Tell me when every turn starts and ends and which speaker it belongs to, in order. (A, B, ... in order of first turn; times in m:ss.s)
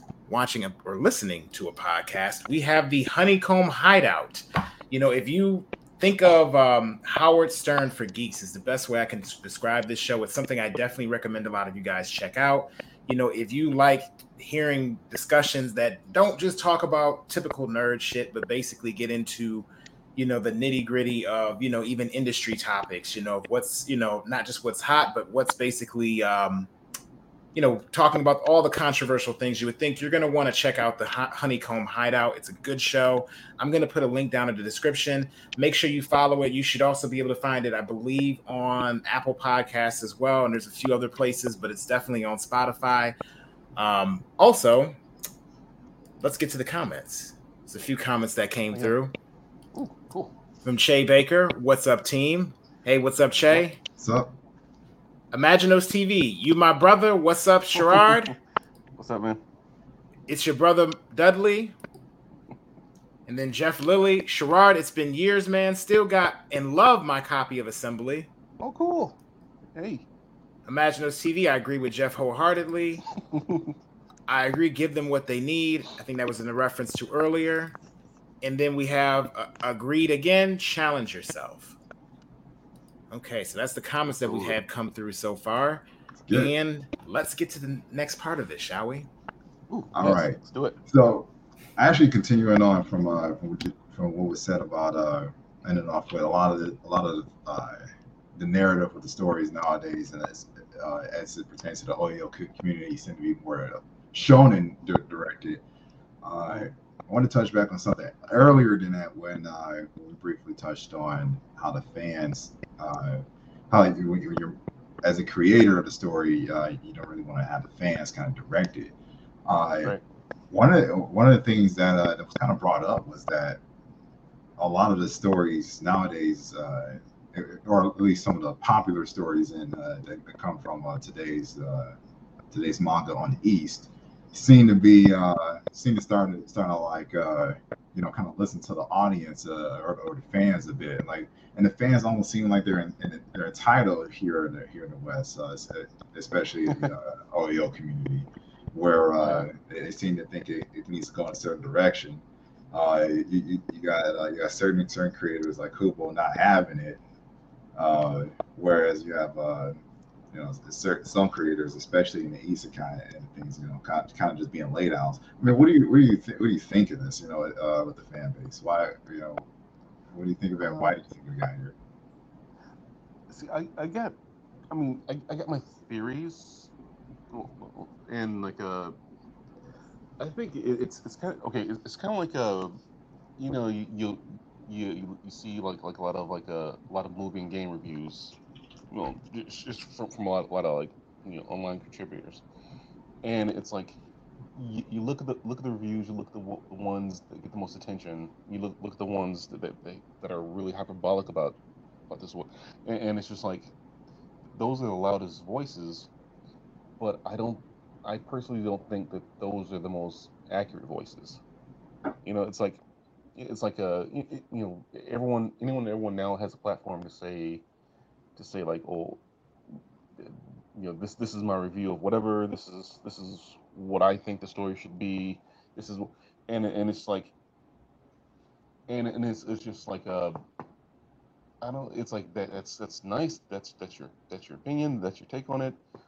0:00.3-0:26.7 A
0:27.6-0:43.2 A
0:43.8-0:45.0 A
0:46.2-0:49.1 A
0:49.7-0:50.4 B
0:50.6-0:53.8 A
0:54.0-0:54.3 C
0:55.3-0:58.3 A
0:57.8-0:58.4 B
0:59.0-0:59.4 B
1:00.3-1:01.8 A
1:03.3-1:08.3 A
1:08.6-1:09.2 B
1:09.8-1:10.1 B
1:10.7-1:13.0 A
1:13.2-1:13.8 B
1:14.3-1:17.8 A
1:18.4-1:21.8 A
1:23.1-1:29.1 A
1:24.1-1:24.6 B
1:26.3-1:26.5 C
1:29.7-1:30.8 B
1:30.0-1:45.6 C
1:46.2-1:59.0 C
1:59.5-2:00.0 C
1:59.8-2:00.0 B
2:00.5-2:03.6 C
2:04.6-2:12.0 C
2:12.5-2:37.0 C
2:29.2-2:29.5 B
2:37.8-2:39.8 C
2:40.3-2:49.5 C
2:50.1-2:51.8 C
2:50.6-2:51.0 B
2:53.3-2:54.2 B
2:54.7-2:56.7 B
2:57.3-2:59.0 B
3:00.2-3:02.8 B
3:03.4-3:08.4 B
3:08.9-3:12.4 B
3:13.2-3:14.0 B
3:14.6-3:21.6 B
3:22.1-3:23.7 B
3:24.5-3:26.1 B
3:27.0-3:31.4 B
3:32.2-3:32.8 B
3:33.4-3:37.6 B
3:38.4-3:39.2 B
3:40.2-3:47.3 B
3:48.9-3:50.4 B
3:51.6-3:55.8 B